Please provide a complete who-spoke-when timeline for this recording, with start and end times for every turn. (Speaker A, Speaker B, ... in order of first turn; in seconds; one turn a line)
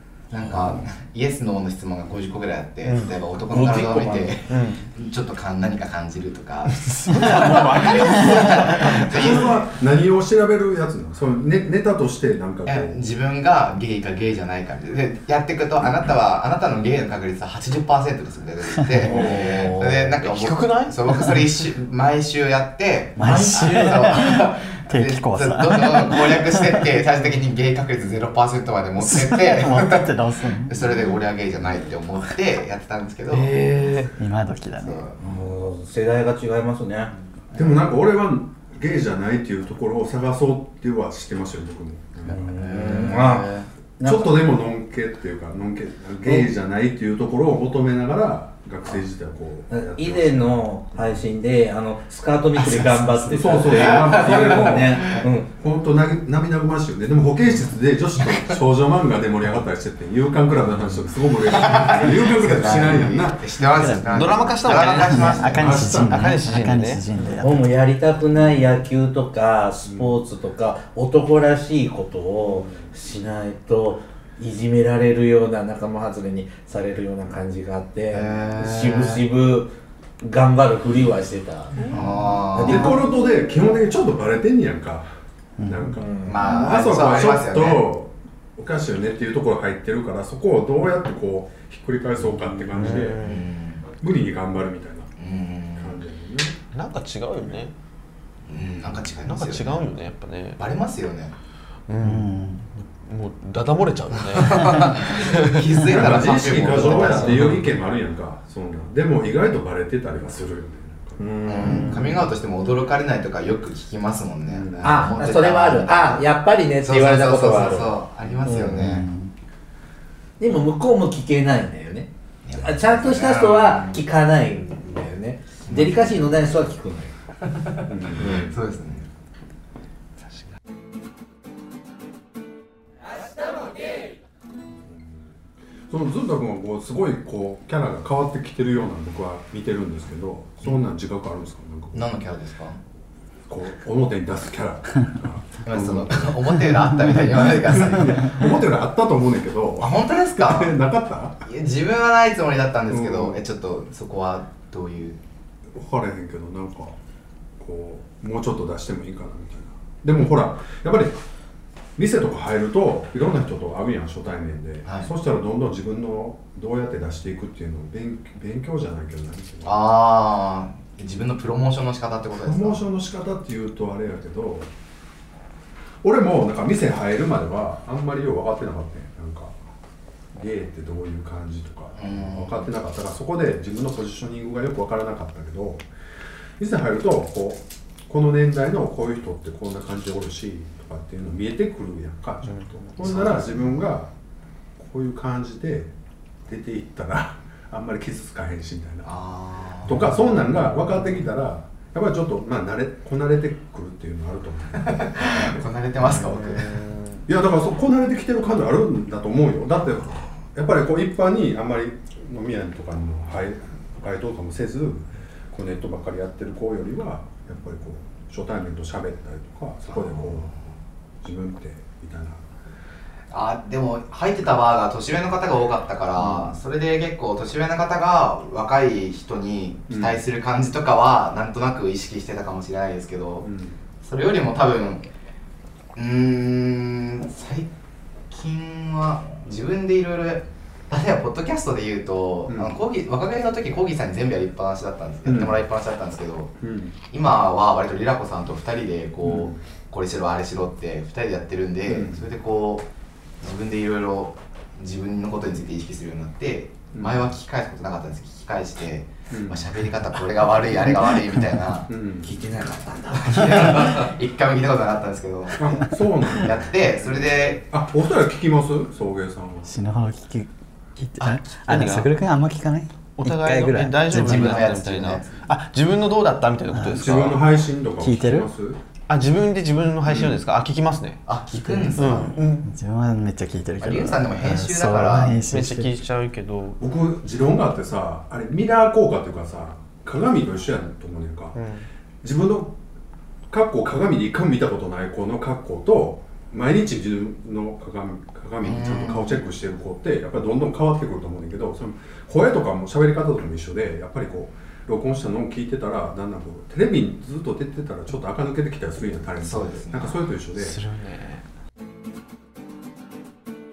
Speaker A: 0.3-9.6
Speaker B: 2.9-4.8
Speaker C: 3.5-4.3
Speaker B: 6.9-9.3
Speaker C: 9.1-13.0
Speaker A: 12.7-33.6
Speaker D: 19.0-20.1
Speaker C: 19.0-19.8
Speaker B: 20.2-21.4
Speaker E: 23.2-26.9
Speaker D: 23.2-24.0
Speaker E: 29.0-30.9
Speaker B: 33.3-34.1
Speaker E: 34.2-35.1
Speaker A: 34.8-35.3
Speaker D: 35.2-37.1
Speaker C: 37.5-43.2
Speaker D: 42.3-44.4
Speaker A: 42.5-43.6
Speaker C: 44.0-51.1
Speaker D: 49.7-55.5
Speaker C: 53.2-63.5
Speaker A: 53.7-55.2
Speaker A: 61.4-65.8
Speaker E: 63.7-64.1
Speaker B: 64.0-67.0
Speaker E: 64.9-67.8
Speaker C: 65.5-66.4
Speaker D: 67.4-83.1
Speaker C: 69.8-70.2
Speaker C: 72.5-72.9
Speaker A: 78.1-79.3
Speaker A: 81.9-83.0
Speaker C: 82.6-85.1
Speaker E: 85.6-85.9
Speaker C: 85.6-93.2
Speaker D: 86.0-86.5
Speaker A: 86.2-87.9
Speaker B: 92.6-93.5
Speaker A: 93.2-93.8
Speaker C: 94.0-95.1
Speaker A: 95.2-96.0
Speaker C: 95.8-96.6
Speaker B: 96.7-97.7
Speaker A: 98.5-99.8
Speaker B: 99.2-100.6
Speaker A: 100.6-101.3
Speaker B: 101.9-105.7
Speaker E: 102.0-102.7
Speaker A: 104.3-107.5
Speaker C: 105.7-112.1
Speaker D: 106.2-107.4
Speaker B: 107.2-107.7
Speaker A: 111.4-116.3
Speaker E: 111.6-112.1
Speaker C: 114.5-115.1
Speaker D: 114.8-117.9
Speaker A: 116.8-119.1
Speaker E: 118.5-119.3
Speaker D: 120.4-127.1
Speaker A: 122.4-124.0
Speaker A: 125.7-126.2
Speaker A: 127.5-129.1
Speaker C: 127.9-128.6
Speaker C: 134.8-135.3
Speaker C: 135.9-142.1
Speaker A: 141.9-142.8
Speaker C: 143.5-146.4
Speaker A: 145.7-148.5
Speaker C: 147.3-151.4
Speaker A: 149.8-150.7
Speaker A: 151.4-155.2
Speaker C: 152.9-153.4
Speaker C: 155.7-156.9
Speaker C: 157.6-161.2
Speaker C: 162.0-169.8
Speaker A: 164.8-165.1
Speaker A: 169.6-172.8
Speaker C: 172.3-174.7
Speaker C: 176.0-179.6
Speaker C: 180.3-185.8
Speaker A: 182.0-182.7
Speaker C: 186.6-194.1
Speaker A: 193.0-193.6
Speaker C: 194.8-195.9
Speaker C: 196.4-199.1
Speaker A: 199.0-200.3
Speaker C: 199.8-206.6
Speaker A: 204.8-206.8
Speaker C: 207.3-220.6
Speaker A: 219.9-220.6
Speaker C: 221.2-222.4
Speaker A: 223.3-233.5
Speaker C: 226.2-226.6
Speaker C: 229.9-230.2
Speaker C: 233.4-233.8
Speaker A: 234.0-235.1
Speaker A: 235.9-237.7
Speaker A: 238.3-246.6
Speaker C: 242.5-242.7
Speaker C: 245.2-245.6
Speaker C: 246.6-246.9
Speaker A: 247.1-252.9
Speaker C: 249.2-249.6
Speaker C: 251.9-252.3
Speaker A: 253.4-261.9
Speaker C: 256.9-257.2
Speaker C: 259.3-259.6
Speaker C: 261.9-262.3
Speaker D: 262.2-264.1
Speaker A: 263.1-267.6
Speaker C: 265.6-269.7
Speaker E: 269.6-274.7
Speaker B: 271.2-272.1
Speaker B: 273.2-277.5
Speaker A: 274.1-275.4
Speaker E: 276.7-277.0
Speaker C: 276.9-278.8
Speaker E: 278.0-278.5
Speaker B: 279.1-281.2
Speaker C: 280.1-280.4
Speaker A: 281.3-282.4
Speaker E: 281.6-285.9
Speaker B: 281.9-282.7
Speaker A: 283.8-285.4
Speaker B: 285.2-286.8
Speaker C: 286.8-291.6
Speaker B: 291.5-291.8
Speaker C: 292.2-292.7
Speaker C: 293.5-310.8
Speaker A: 298.6-299.4
Speaker A: 309.4-310.2
Speaker B: 310.5-311.4